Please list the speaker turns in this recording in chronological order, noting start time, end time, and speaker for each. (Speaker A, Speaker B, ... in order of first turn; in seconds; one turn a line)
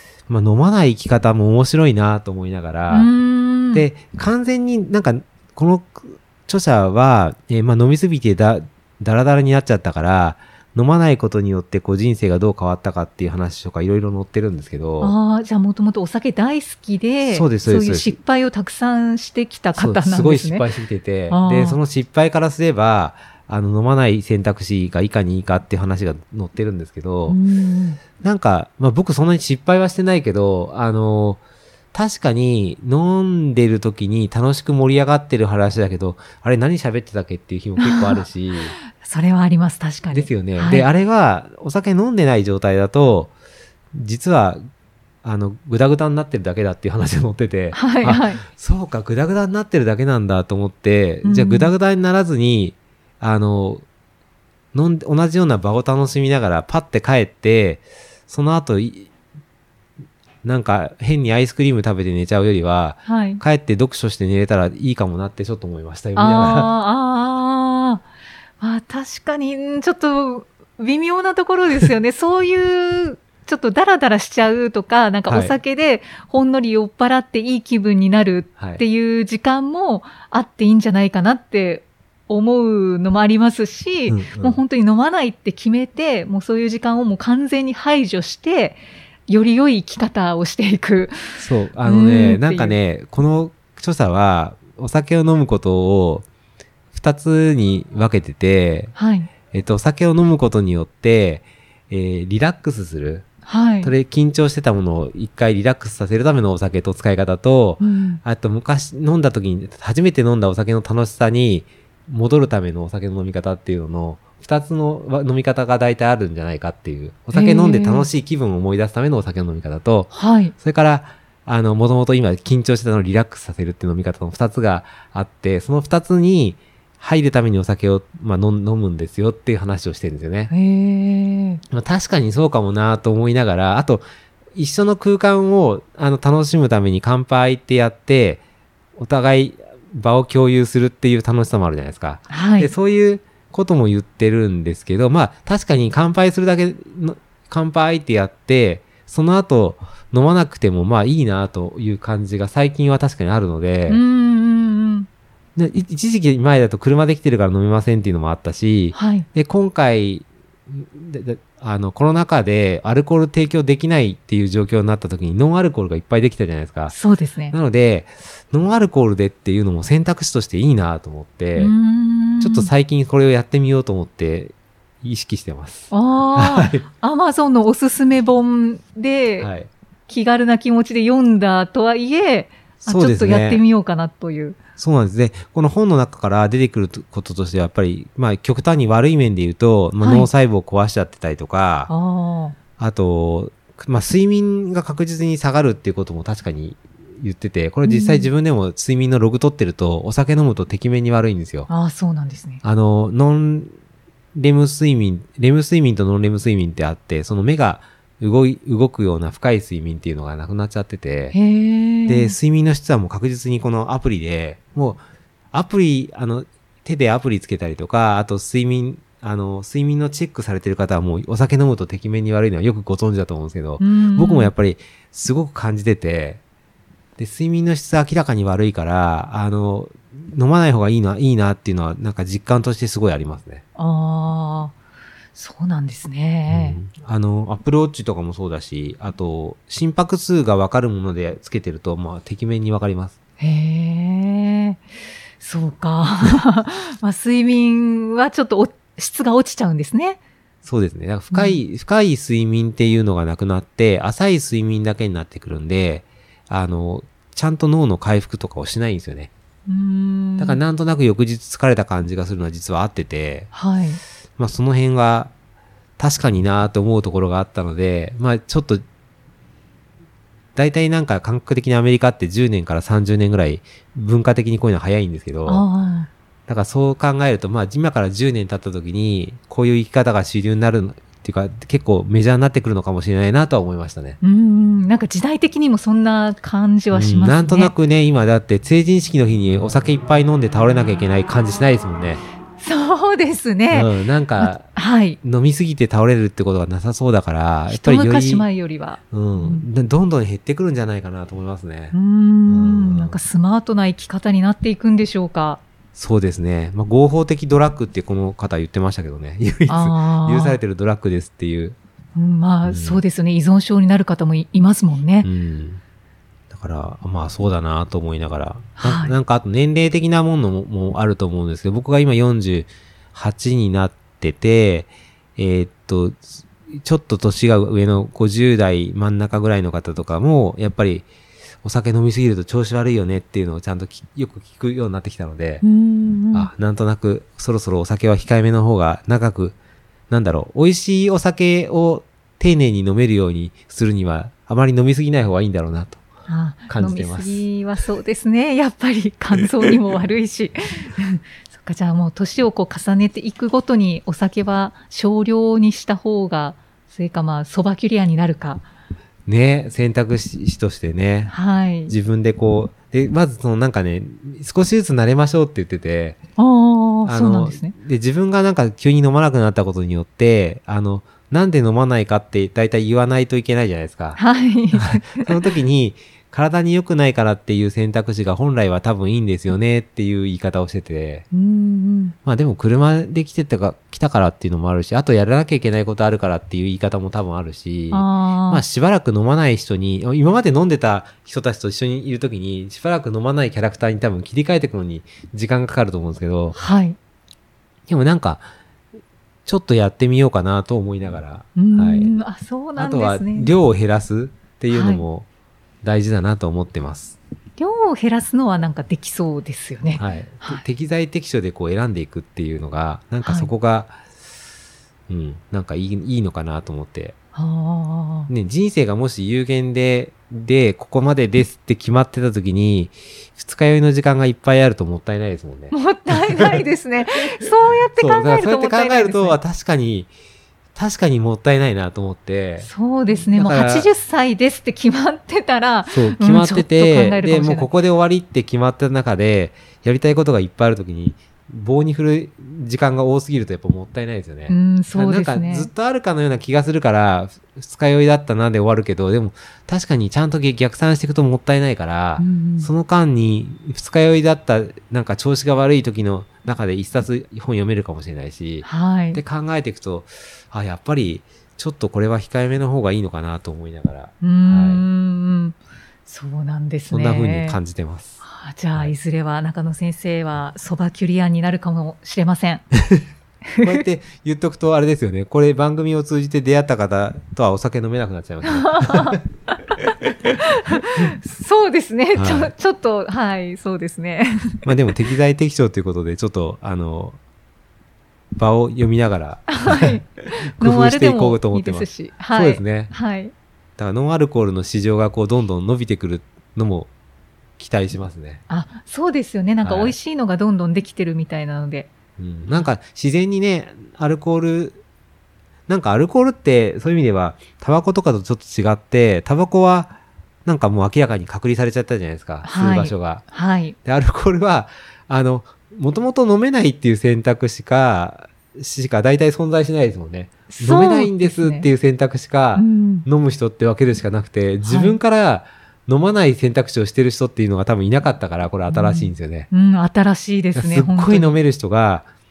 Speaker A: 0.3-3.1
Speaker B: 2.9-3.9
Speaker A: 3.7-15.1
Speaker B: 15.0-20.7
Speaker A: 17.2-18.1
Speaker A: 19.7-27.4
Speaker B: 21.3-21.8
Speaker B: 27.3-28.0
Speaker A: 28.2-31.4
Speaker A: 31.9-38.8
Speaker B: 37.8-38.2
Speaker B: 38.9-40.9
Speaker A: 40.1-43.3
Speaker A: 43.9-44.6
Speaker A: 45.2-53.8
Speaker B: 47.7-48.4
Speaker B: 51.2-51.7
Speaker A: 54.7-59.1
Speaker A: 60.4-66.7
Speaker B: 63.0-63.4
Speaker B: 66.2-68.0
Speaker B: 68.6-92.8
Speaker A: 75.3-75.5
Speaker A: 78.6-78.8
Speaker A: 84.1-84.6
Speaker A: 91.4-96.2
Speaker A: 96.9-98.9
Speaker B: 98.9-99.3
Speaker A: 99.5-103.3
Speaker B: 103.4-103.9
Speaker A: 103.8-130.5
Speaker B: 107.8-108.2
Speaker B: 117.3-118.1
Speaker B: 120.1-120.5
Speaker B: 130.5-131.6
Speaker A: 131.7-138.4
Speaker A: 138.9-154.0
Speaker B: 142.3-142.7
Speaker B: 153.9-155.1
Speaker A: 155.6-166.9
Speaker B: 158.9-159.3
Speaker B: 166.9-167.6
Speaker A: 167.5-171.7
Speaker B: 171.6-172.7
Speaker A: 172.4-176.8
Speaker B: 175.9-179.5
Speaker A: 179.4-179.7
Speaker B: 180.1-184.6
Speaker A: 182.8-183.6
Speaker A: 184.8-191.9
Speaker B: 190.0-190.3
Speaker B: 191.9-192.6
Speaker A: 192.8-201.7
Speaker B: 197.8-198.3
Speaker B: 201.7-202.6
Speaker A: 202.6-203.7
Speaker A: 204.3-211.3
Speaker B: 211.3-212.3
Speaker A: 212.1-226.4
Speaker B: 223.8-224.5
Speaker A: 227.2-233.6
Speaker B: 233.8-234.7
Speaker B: 235.3-236.8
Speaker A: 236.5-243.2
Speaker B: 243.4-244.8
Speaker B: 245.4-250.2
Speaker A: 250.6-259.3
Speaker B: 251.3-251.6
Speaker B: 259.7-260.6
Speaker A: 260.4-263.5
Speaker B: 263.5-264.0
Speaker A: 264.4-265.3
Speaker A: 266.0-268.8
Speaker A: 270.5-275.6
Speaker B: 275.4-276.1
Speaker A: 276.5-284.2
Speaker B: 284.2-287.7
Speaker A: 286.9-292.2
Speaker B: 292.6-295.2
Speaker A: 293.7-294.7
Speaker A: 295.2-298.5
Speaker B: 297.7-299.7
Speaker A: 299.1-301.9
Speaker B: 301.9-305.6
Speaker A: 302.5-303.2
Speaker A: 305.9-311.8
Speaker B: 309.7-310.6
Speaker B: 312.1-315.3
Speaker A: 312.6-313.0
Speaker A: 315.2-315.8
Speaker A: 316.5-331.1
Speaker B: 318.8-319.1
Speaker A: 331.6-335.6
Speaker B: 335.6-336.5
Speaker A: 336.3-339.5
Speaker A: 340.1-346.0
Speaker B: 346.3-358.6
Speaker A: 346.7-347.4
Speaker A: 359.2-361.3
Speaker B: 361.3-361.9
Speaker A: 361.9-366.2
Speaker B: 366.4-367.7
Speaker A: 367.0-374.2
Speaker B: 374.1-375.5
Speaker A: 374.7-381.2
Speaker B: 381.3-382.1
Speaker A: 382.2-396.6
Speaker B: 387.9-388.6
Speaker B: 396.5-397.0
Speaker A: 397.9-398.5
Speaker A: 399.4-402.1
Speaker B: 401.6-403.5
Speaker A: 402.8-405.3
Speaker B: 404.7-405.0
Speaker A: 405.8-407.2
Speaker B: 407.6-410.6
Speaker A: 410.0-414.0
Speaker B: 413.2-413.5
Speaker A: 415.1-417.1
Speaker B: 417.3-418.3
Speaker A: 418.3-426.7
Speaker B: 425.7-429.4
Speaker A: 427.4-430.1
Speaker A: 430.7-433.9
Speaker B: 432.6-437.7
Speaker A: 435.9-464.9
Speaker B: 444.5-445.7
Speaker B: 452.2-452.7
Speaker B: 458.6-459.2
Speaker B: 464.2-467.6
Speaker A: 466.9-468.9
Speaker B: 468.2-472.6
Speaker A: 472.7-473.0
Speaker B: 473.6-473.8
Speaker A: 473.6-479.2
Speaker B: 478.4-479.2
Speaker B: 479.8-484.7
Speaker A: 482.1-482.5
Speaker A: 484.6-487.2
Speaker A: 488.3-490.0
Speaker B: 489.5-493.3
Speaker A: 490.6-492.9
Speaker A: 493.8-496.9
Speaker A: 497.6-498.4
Speaker B: 498.5-501.9
Speaker A: 499.6-499.9
Speaker A: 502.2-504.8
Speaker A: 505.7-513.2
Speaker B: 512.4-513.8
Speaker A: 513.8-529.5
Speaker B: 520.5-521.7
Speaker B: 522.5-523.0
Speaker B: 524.6-525.0
Speaker B: 528.7-531.4
Speaker A: 530.5-532.1